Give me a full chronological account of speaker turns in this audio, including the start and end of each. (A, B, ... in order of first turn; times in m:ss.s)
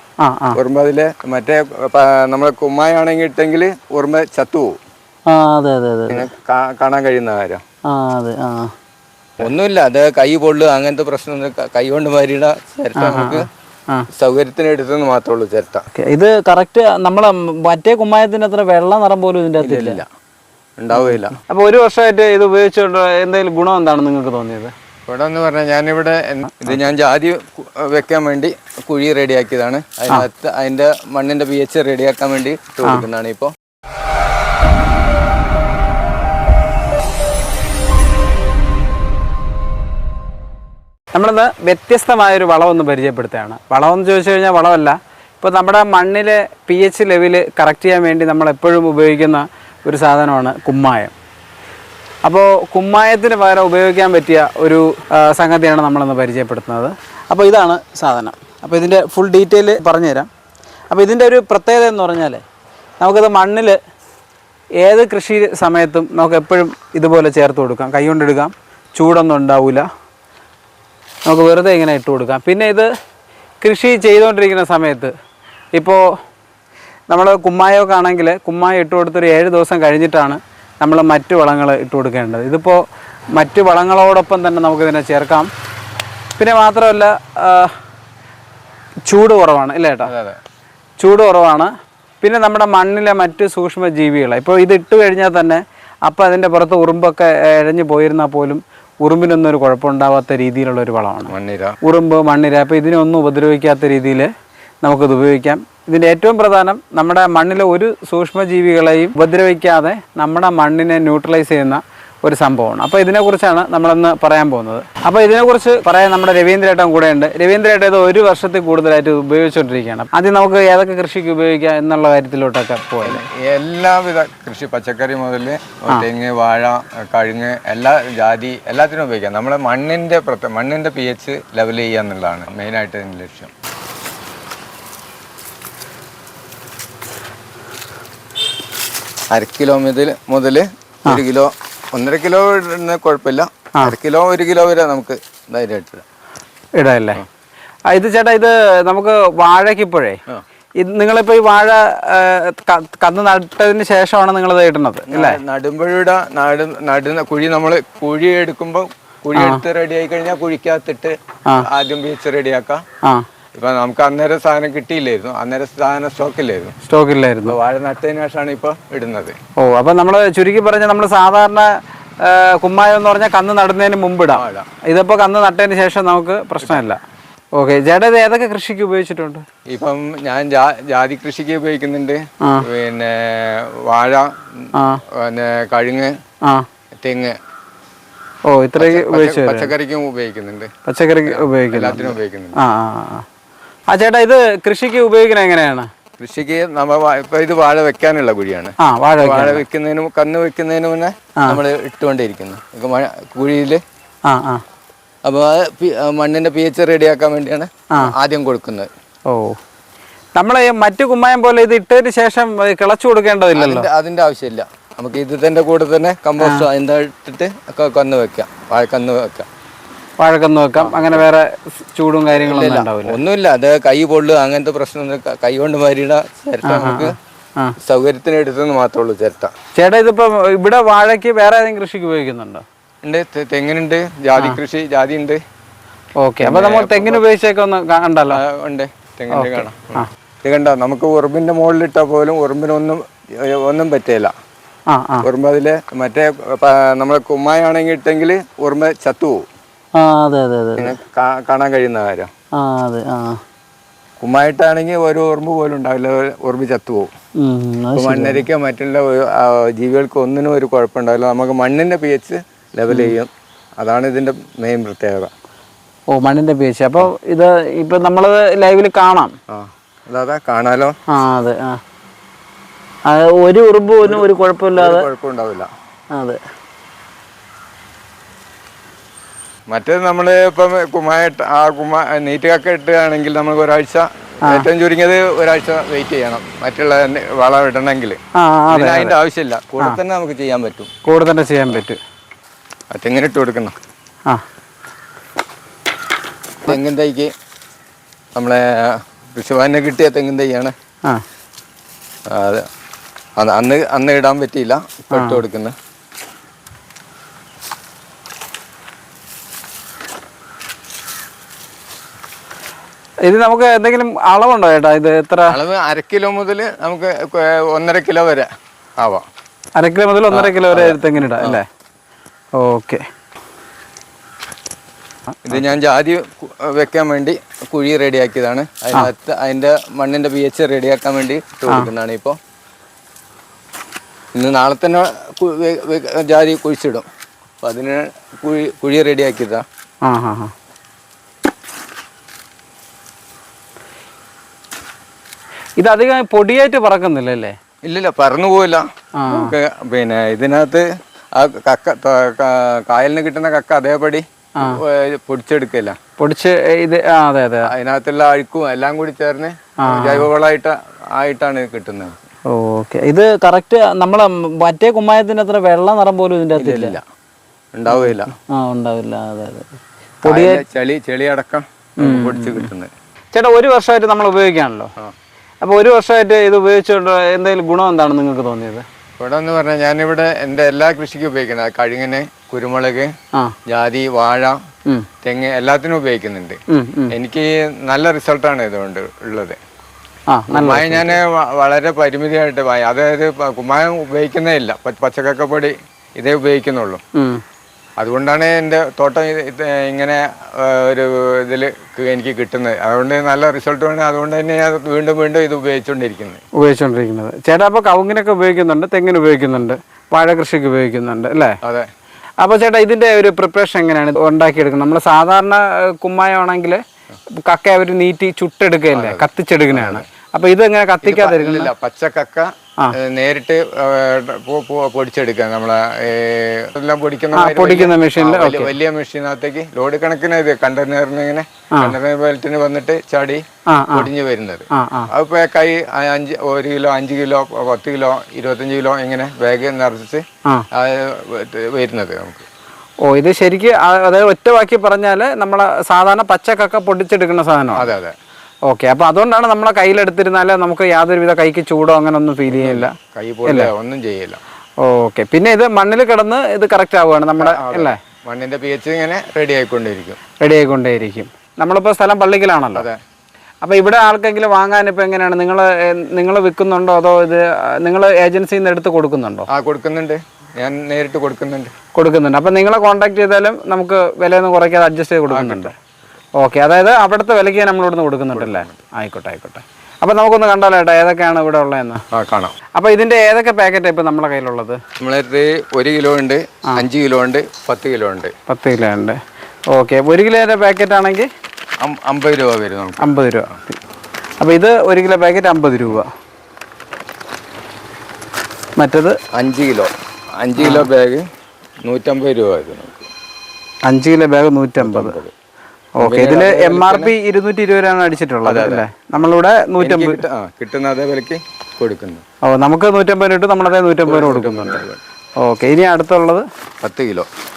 0:00.2-0:00.6 A
0:00.5-0:04.8 B
0:05.3-0:06.3 A
0:06.1-0:07.6 B
0:07.9-0:08.7 A
0:09.4-0:13.4 B
0:13.0-0:14.1 A
0:14.1-0:15.8 B
0:15.9-0:20.0 A
0:19.6-0:20.0 B
0:20.8-0:21.4 B
0:21.0-0:24.7 A
0:25.1-0:33.5 B
0:41.1-0:51.1 A
0:52.2-1:00.3 A
1:00.9-1:02.4 A
1:03.0-1:03.8 A
1:04.8-1:09.8 A
1:11.2-1:12.9 A
1:13.6-1:15.1 A
1:15.7-1:16.0 A
1:17.1-1:22.8 A
1:23.3-1:25.5 A
1:26.4-1:27.7 A
1:29.1-1:30.1 A
1:30.0-1:30.4 B
1:31.0-1:44.3 A
1:41.3-1:41.8 B
1:44.8-2:03.2 A
2:03.0-2:13.5 B
2:19.3-2:26.0 B
2:26.8-2:27.2 A
2:27.9-2:30.2 A
2:30.8-2:35.4 A
2:35.1-2:42.8 B
2:39.3-2:39.6 A
2:43.5-2:46.7 B
2:46.9-2:47.5 A
2:47.4-2:49.3 B
2:49.6-2:51.7 A
2:52.2-2:57.0 A
2:54.3-2:54.7 B
2:57.6-2:59.4 A
2:59.7-3:06.1 B
3:04.7-3:05.0 A
3:07.0-3:07.4 B
3:08.5-3:09.7 A
3:08.8-3:10.7 B
3:10.8-3:13.2 A
3:11.3-3:12.6 B
3:13.9-3:15.9 A
3:16.2-3:23.8 B
3:18.8-3:19.6 A
3:24.2-3:24.6 A
3:25.2-3:28.9 B
3:29.3-3:29.6 A
3:30.4-3:33.9 A
3:33.5-3:39.5 B
3:36.4-3:36.6 A
3:40.2-3:43.2 A
3:40.8-3:41.2 B
3:42.4-3:47.1 B
3:46.6-3:47.7 A
3:47.8-3:49.5 B
3:49.8-3:52.6 A
3:53.0-3:55.4 B
3:56.2-3:58.4 A
3:56.4-3:57.2 B
3:58.3-4:04.3 B
3:59.3-4:00.1 A
4:04.9-4:05.3 A
4:05.2-4:09.5 B
4:09.9-4:10.9 A
4:10.8-4:12.3 B
4:12.5-4:13.4 A
4:14.2-4:17.1 B
4:17.4-4:18.4 A
4:18.0-4:23.3 B
4:22.9-4:23.1 A
4:23.8-4:25.3 B
4:26.1-4:29.3 A
4:29.5-4:30.9 B
4:31.1-4:31.8 A
4:33.1-4:35.1 A
4:34.0-4:35.7 B
4:36.1-4:36.4 A
4:39.7-4:48.2 B
4:48.4-4:49.2 A
4:48.7-4:50.9 B
4:51.0-4:52.0 A
4:52.9-4:53.7 B
4:56.6-4:57.3 B
4:58.4-5:00.7 B
5:02.3-5:02.6 B
5:03.4-5:05.7 B
5:05.1-5:05.4 A
5:13.2-5:15.5 A
5:15.5-5:18.5 B
5:19.8-5:21.6 A
5:20.3-5:21.6 B
5:22.5-5:23.0 A
5:25.4-5:32.4 B
5:34.3-5:37.0 B
5:37.6-5:39.6 B
5:40.0-5:40.5 A
5:45.8-5:47.5 A
5:47.8-5:56.0 B
5:49.2-5:49.5 A
5:56.2-5:57.7 A
5:57.6-6:02.2 B
5:59.8-6:00.3 A
6:02.5-6:07.0 A
6:06.6-6:07.0 B
6:07.7-6:08.3 B
6:07.9-6:09.7 A
6:10.2-6:10.6 A
6:10.2-6:12.9 B
6:12.0-6:12.7 A
6:13.3-6:14.9 A
6:15.6-6:18.8 A
6:19.2-6:23.1 B
6:23.7-6:24.6 B
6:25.2-6:26.6 B
6:26.7-6:27.1 A
6:27.1-6:29.6 B
6:30.3-6:31.2 A
6:30.5-6:37.0 B
6:37.1-6:37.4 A
6:38.0-6:46.4 B
6:46.6-6:51.6 A
6:51.6-6:51.9 B
6:52.4-6:56.8 A
6:57.4-7:01.7 A
6:58.9-7:00.0 B
7:01.0-7:22.4 B
7:07.3-7:08.7 A
7:13.7-7:14.1 A
7:14.7-7:15.1 A
7:23.0-7:27.9 A
7:27.8-7:28.1 B
7:28.7-7:32.9 A
7:32.5-7:34.4 B
7:33.4-7:33.7 A
7:34.8-7:38.0 A
7:37.4-7:40.2 B
7:40.4-7:42.9 A
7:43.6-7:49.5 A
7:49.5-7:51.7 B
7:51.9-7:55.7 A
7:55.3-7:55.7 B
7:56.4-8:02.0 A
7:58.3-7:58.8 B
8:02.1-8:02.5 B
8:02.8-8:04.8 A
8:05.0-8:08.3 B
8:08.5-8:09.2 A
8:09.7-8:11.3 A
8:11.8-8:13.1 B
8:13.0-8:13.8 A
8:14.4-8:16.1 A
8:18.8-8:19.2 A
8:19.3-8:21.2 B
8:20.6-8:20.9 A
8:21.8-8:23.1 B
8:23.8-8:25.2 A
8:24.8-8:25.3 B
8:26.0-8:30.2 A
8:26.0-8:27.1 B
8:28.4-8:28.9 B
8:29.8-8:32.2 B
8:32.4-8:34.8 A
8:34.0-8:35.0 B
8:35.4-8:36.4 A
8:36.8-8:37.3 B